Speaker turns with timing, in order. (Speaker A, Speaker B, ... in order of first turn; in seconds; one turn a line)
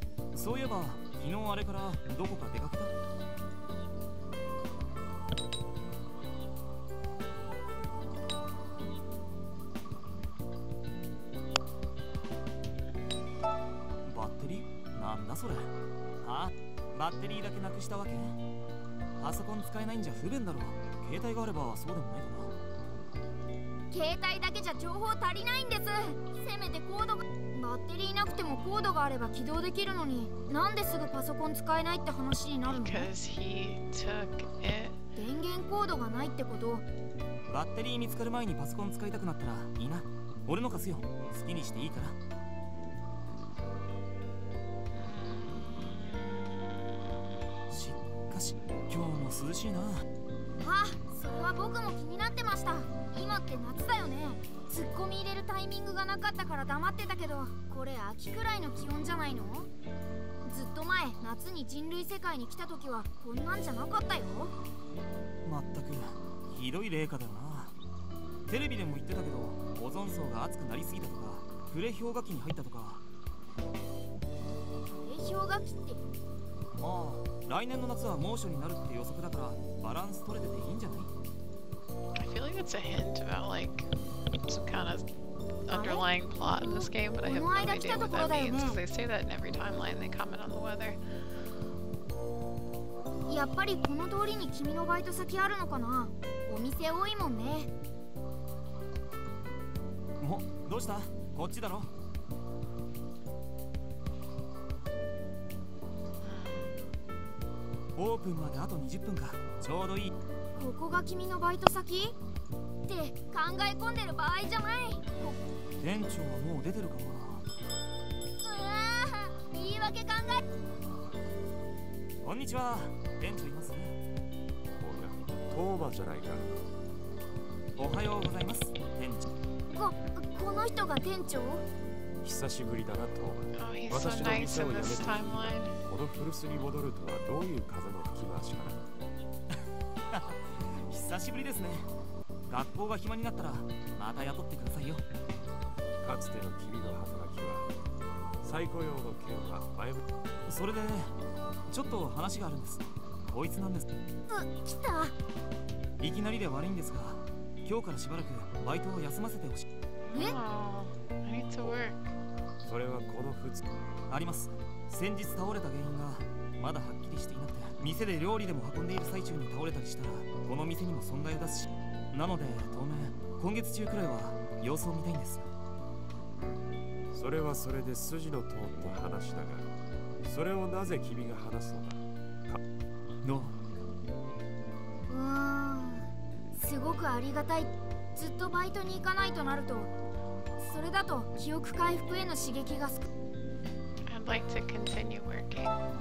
Speaker A: 0.3-2.9
Speaker A: 14.1-18.4
Speaker A: 19.2-22.6
Speaker B: 23.9-33.1
Speaker C: 32.7-35.0
Speaker B: 35.2-36.9
Speaker A: 37.5-42.2
Speaker C: 44.9-47.4
Speaker A: 47.7-50.1
Speaker B: 50.6-59.7
Speaker B: 60.5-64.5
Speaker A: 65.5-67.7
Speaker A: 68.5-73.0
Speaker B: 74.9-76.0
Speaker A: 76.8-81.1
Speaker C: 82.2-83.9
Speaker C: 84.5-85.1
Speaker C: 85.7-91.1
Speaker B: 85.7-88.8
Speaker B: 93.3-97.7
Speaker A: 100.2-101.9
Speaker C: 106.2-106.7
Speaker A: 108.0-110.1
Speaker B: 110.6-112.2
Speaker B: 112.9-115.4
Speaker A: 115.8-117.4
Speaker B: 118.4-120.4
Speaker A: 122.2-124.0
Speaker D: 124.7-126.6
Speaker A: 127.8-129.3
Speaker B: 129.7-131.6
Speaker D: 132.2-138.8
Speaker C: 133.5-135.8
Speaker A: 140.1-141.9
Speaker A: 142.5-145.0
Speaker D: 146.0-147.7
Speaker D: 148.4-150.0
Speaker A: 150.5-151.2
Speaker A: 151.7-153.8
Speaker B: 154.3-155.1
Speaker A: 156.0-159.7
Speaker C: 160.1-162.0
Speaker D: 162.6-163.6
Speaker A: 164.1-175.5
Speaker D: 177.1-182.6
Speaker A: 183.2-183.6
Speaker B: 185.1-189.9
Speaker B: 190.6-193.1
Speaker C: 194.1-195.8